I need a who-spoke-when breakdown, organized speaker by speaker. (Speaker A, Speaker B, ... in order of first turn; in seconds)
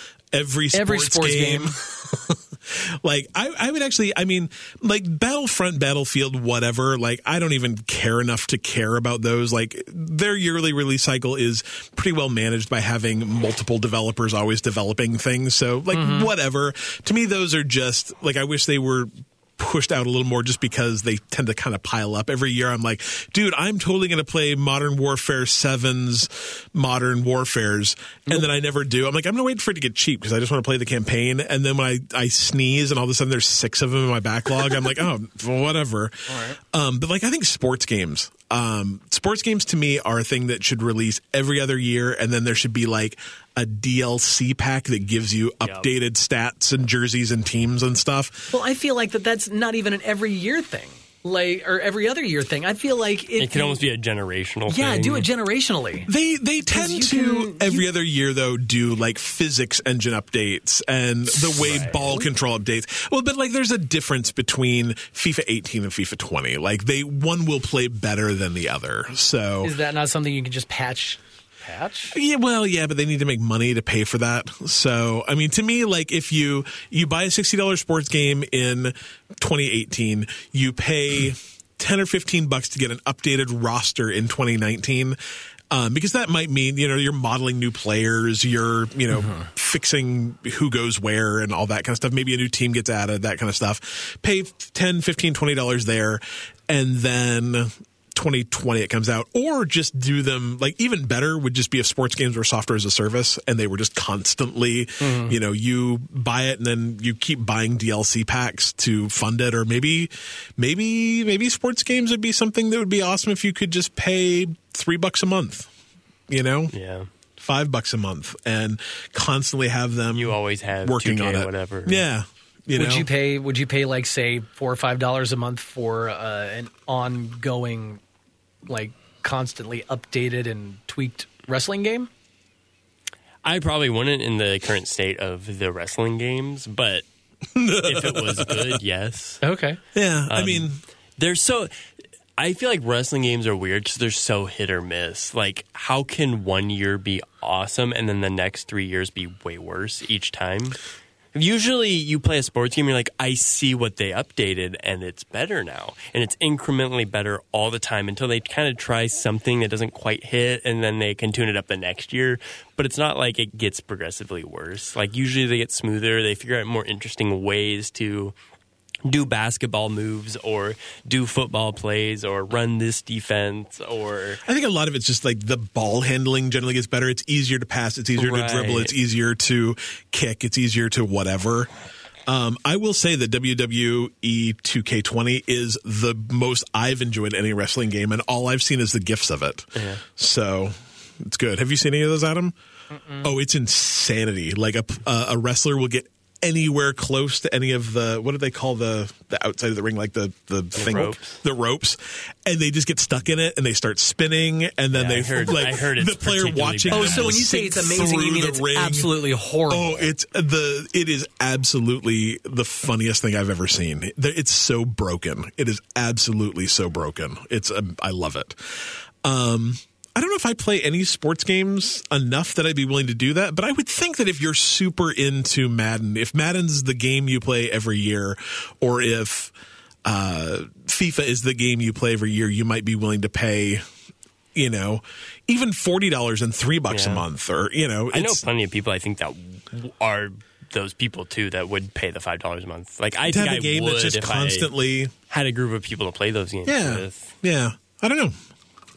Speaker A: 0.3-48.5, 56.1-69.8, 72.1-85.2, 85.7-115.7, 116.3-116.7, 117.4-123.1, 137.6-138.8, 139.9-140.8, 174.4-181.7, 182.3-192.5, 193.2-209.1, 209.7-229.5, 230.1-233.8, 234.6-238.4, 243.3-245.1, 246.7-248.3
Speaker B: 0.7-1.7, 15.9-16.3, 36.3-36.6, 48.5-53.8, 54.7-56.1, 56.7-57.9, 61.8-62.2, 69.6-72.2, 105.0-105.4, 122.7-128.0, 128.7-132.1, 139.4-139.8, 206.9-210.1
Speaker C: 53.4-55.3, 61.6-62.0, 116.7-117.1, 120.2-122.0, 133.4-137.1, 137.8-139.4, 140.3-141.7, 142.4-150.8, 151.3-168.3, 169.1-174.4, 178.2-178.9, 189.8-190.0, 200.8-201.4, 204.9-207.5, 236.9-237.3, 238.1-244.7, 245.3-247.3